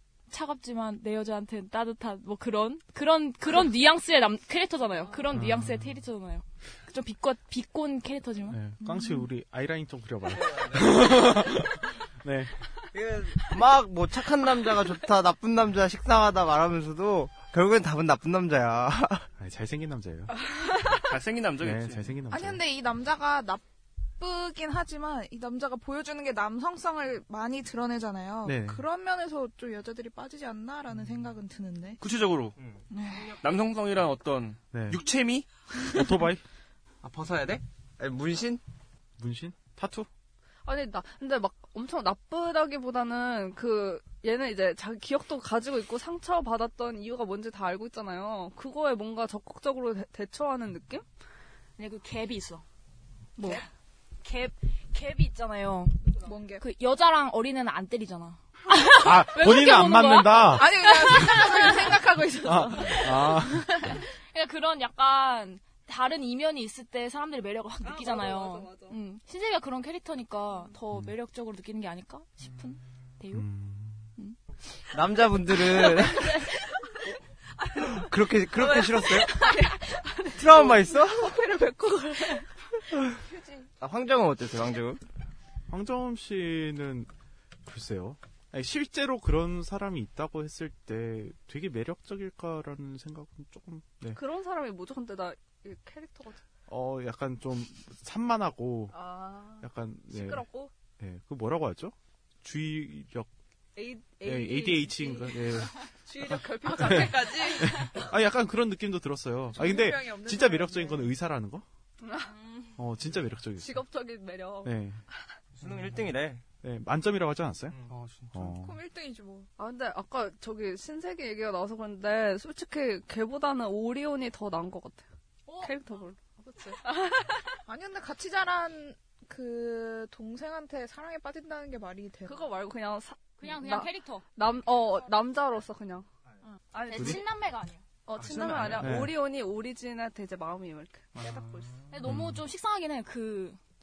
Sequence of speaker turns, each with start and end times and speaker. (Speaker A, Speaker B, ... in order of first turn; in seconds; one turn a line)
Speaker A: 0.3-8.6
Speaker B: 5.3-6.0
Speaker B: 8.5-12.5
Speaker C: 8.8-9.3
Speaker D: 12.9-19.2
Speaker B: 19.4-20.3
Speaker E: 21.1-22.1
Speaker B: 21.6-22.6
Speaker C: 22.3-23.6
Speaker C: 24.2-32.0
Speaker B: 28.4-28.9
Speaker E: 32.0-32.6
Speaker C: 32.9-33.4
Speaker E: 33.3-35.5
Speaker B: 34.7-35.0
Speaker B: 35.9-36.4
Speaker D: 37.0-38.6
Speaker B: 39.2-40.1
Speaker F: 40.7-51.0
Speaker A: 51.8-52.6
Speaker A: 53.4-53.6
Speaker A: 54.2-56.0
Speaker C: 56.2-56.6
Speaker A: 56.6-61.8
Speaker B: 59.0-60.8
Speaker C: 60.5-64.0
Speaker F: 60.7-63.3
Speaker B: 62.4-64.0
Speaker A: 64.3-73.5
Speaker F: 67.8-69.0
Speaker B: 73.3-74.1
Speaker D: 74.9-76.4
Speaker F: 75.8-76.6
Speaker F: 77.6-82.5
Speaker D: 77.8-79.5
Speaker D: 80.3-81.3
Speaker D: 83.8-85.0
Speaker B: 85.7-87.1
Speaker B: 87.7-94.2
Speaker F: 94.1-96.4
Speaker B: 96.7-99.0
Speaker F: 98.9-100.7
Speaker B: 99.6-100.5
Speaker B: 101.0-103.3
Speaker F: 103.8-108.1
Speaker B: 104.2-111.7
Speaker C: 109.5-111.1
Speaker F: 112.0-112.8
Speaker B: 112.8-113.8
Speaker F: 113.6-114.8
Speaker B: 114.6-115.0
Speaker D: 115.6-116.4
Speaker B: 116.6-117.8
Speaker E: 117.8-118.5
Speaker B: 118.3-118.8
Speaker C: 118.4-119.5
Speaker F: 119.6-125.1
Speaker A: 125.5-125.7
Speaker F: 125.6-127.6
Speaker C: 127.7-132.5
Speaker F: 132.2-136.1
Speaker A: 133.4-134.3
Speaker F: 136.7-137.2
Speaker A: 136.7-137.8
Speaker F: 138.1-141.8
Speaker E: 138.2-139.0
Speaker B: 138.8-139.2
Speaker E: 141.2-141.8
Speaker A: 141.9-143.6
Speaker B: 142.1-142.4